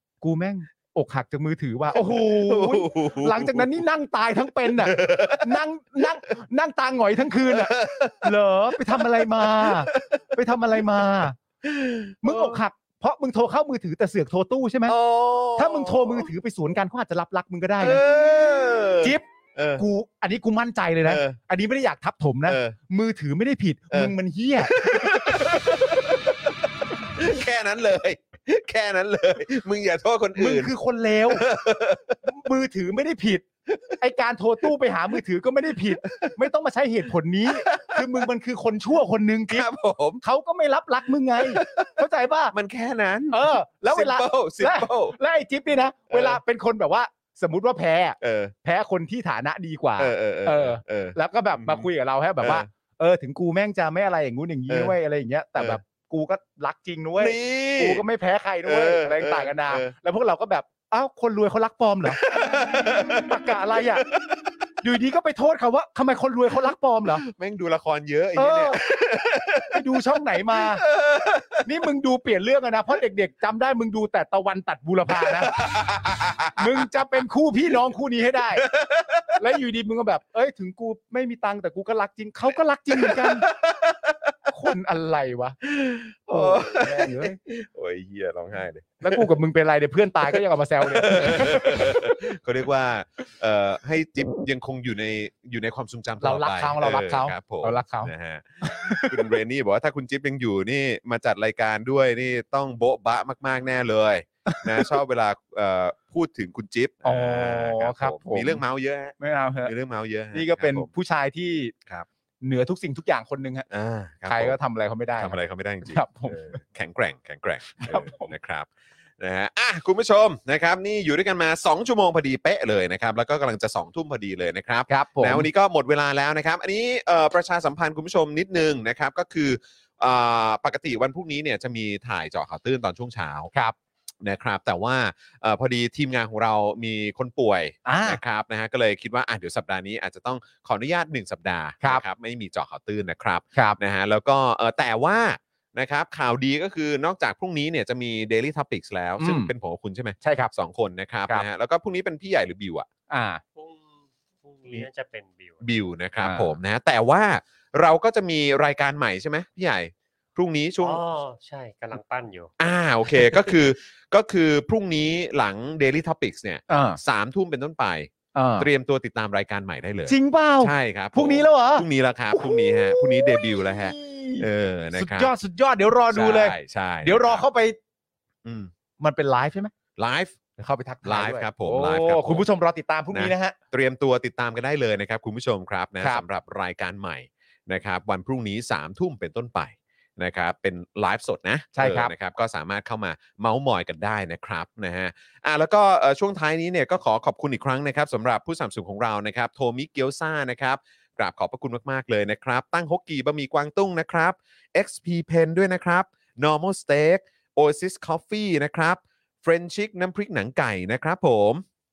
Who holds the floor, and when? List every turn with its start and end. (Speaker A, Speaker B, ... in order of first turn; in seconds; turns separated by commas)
Speaker A: 0.2-11.4, Speaker B: 2.0-3.8, Speaker B: 4.7-5.6, Speaker B: 7.5-8.3, Speaker B: 8.9-10.4, Speaker B: 11.6-12.6, Speaker A: 12.2-15.0, Speaker B: 14.9-16.3, Speaker A: 15.6-18.0, Speaker B: 17.8-19.8, Speaker A: 19.0-26.1, Speaker B: 21.1-21.4, Speaker B: 22.5-22.8, Speaker B: 23.9-30.7, Speaker A: 30.4-31.5, Speaker B: 31.3-32.2, Speaker A: 32.2-33.5, Speaker B: 33.7-34.0, Speaker A: 34.0-39.7, Speaker B: 36.0-36.4, Speaker B: 37.5-38.3, Speaker B: 39.5-40.2, Speaker A: 40.2-42.5, Speaker B: 41.4-41.9, Speaker B: 42.5-45.2, Speaker A: 43.3-62.2, Speaker B: 46.1-46.4, Speaker B: 48.2-48.5, Speaker B: 50.0-51.9, Speaker B: 52.4-52.7, Speaker B: 54.7-55.0, Speaker B: 57.2-58.0, Speaker B: 58.6-59.9, Speaker B: 62.1-64.4, Speaker A: 62.8-64.0, Speaker A: 64.8-67.2, Speaker B: 67.1-71.7, Speaker A: 68.4-68.8, Speaker A: 69.6-70.8, Speaker A: 71.6-75.5, Speaker B: 75.1-76.9, Speaker A: 76.6-78.7, Speaker B: 78.6-79.4, Speaker A: 79.4-83.5, Speaker B: 82.9-84.3, Speaker A: 84.5-85.6, Speaker B: 85.6-89.3, Speaker A: 86.3-87.4, Speaker A: 89.0-92.3, Speaker B: 90.2-110.9, Speaker A: 96.2-98.1, Speaker A: 98.6-99.2, Speaker A: 104.5-104.9, Speaker A: 107.0-108.6, Speaker A: 109.2-109.7, Speaker A: 110.3-111.7, Speaker A: 112.4-113.7, Speaker B: 113.7-114.6, Speaker A: 114.3-116.6, Speaker B: 115.2-118.7, Speaker A: 117.8-118.3, Speaker B: 119.2-133.5, Speaker A: 124.9-125.5, Speaker B: 134.2-152.9, Speaker A: 137.8-138.2, Speaker A: 149.2-149.5, Speaker A: 150.2-150.5, Speaker A: 153.1-153.4, Speaker C: 153.6-155.6, Speaker B: 155.6-161.0, Speaker A: 156.2-156.5, Speaker C: 160.8-162.5, Speaker B: 162.6-175.3, Speaker C: 163.1-163.4, Speaker A: 166.7-167.0, Speaker A: 168.3-168.7, Speaker A: 170.1-177.8, Speaker B: 176.1-177.4, Speaker B: 178.4-178.7, Speaker A: 179.0-179.7, Speaker B: 180.0-180.3, Speaker A: 180.6-183.6, Speaker B: 181.1-182.4, Speaker B: 183.1-211.6, Speaker A: 191.8-192.1